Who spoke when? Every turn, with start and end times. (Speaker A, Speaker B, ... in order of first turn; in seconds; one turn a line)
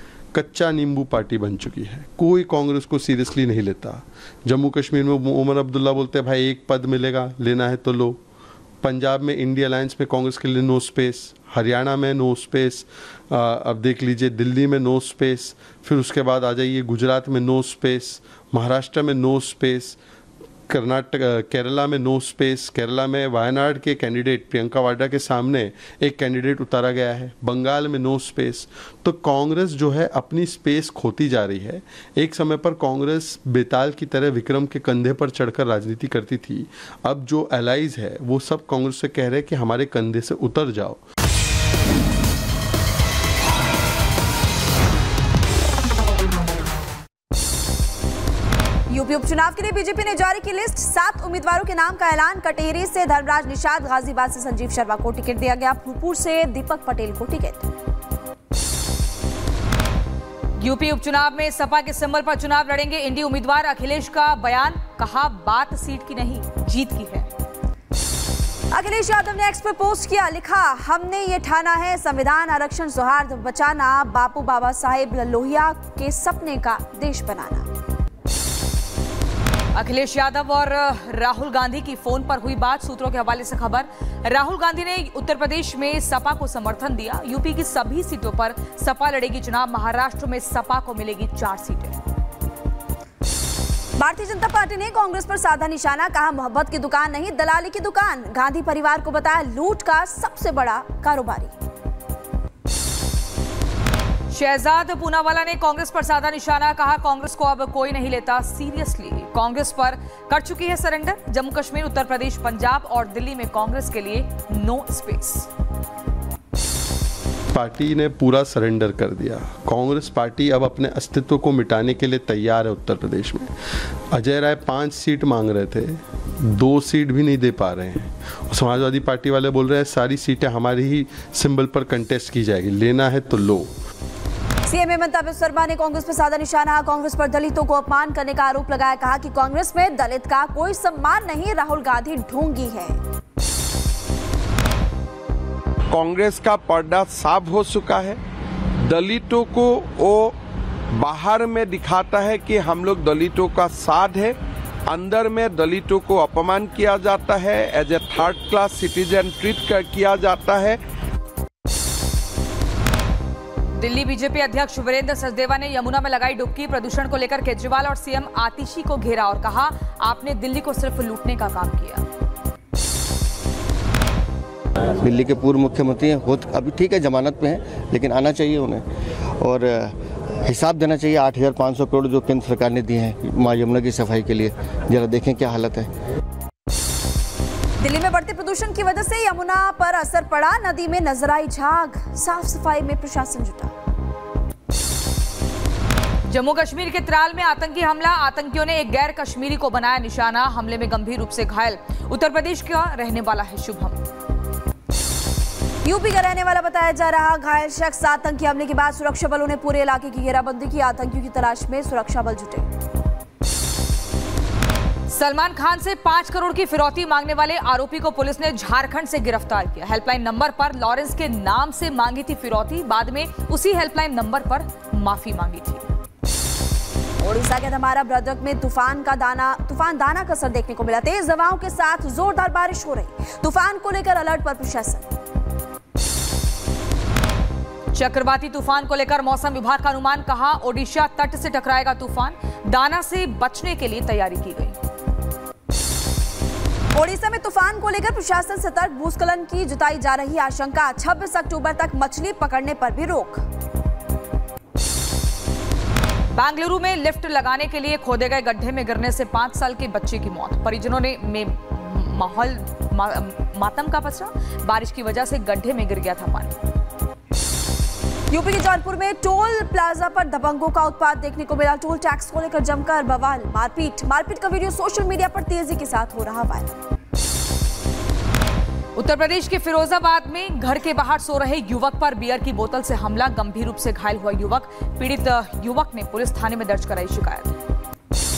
Speaker A: 0.3-8.2
Speaker A: 8.8-20.0
Speaker A: 20.7-41.0
Speaker B: 48.9-57.7
Speaker C: 60.6-67.3
Speaker B: 68.7-77.7
Speaker C: 79.8-92.0
Speaker B: 94.0-101.5
Speaker C: 104.3-115.5
Speaker A: 117.5-123.5
Speaker A: 124.1-133.7
Speaker B: 134.7-143.0
Speaker D: 145.9-148.2
Speaker D: 148.8-150.4
Speaker D: 150.9-160.8
Speaker C: 163.8-172.1
Speaker E: 175.0-178.8
Speaker E: 179.4-185.9
Speaker B: 187.8-193.7
Speaker C: 196.3-204.0
Speaker B: 205.8-212.7
Speaker C: 215.1-225.9
Speaker B: 227.2-235.1
Speaker C: 237.9-244.8
Speaker B: 246.9-253.4
Speaker C: 256.3-266.6
Speaker B: 268.3-276.8
Speaker C: 279.0-287.6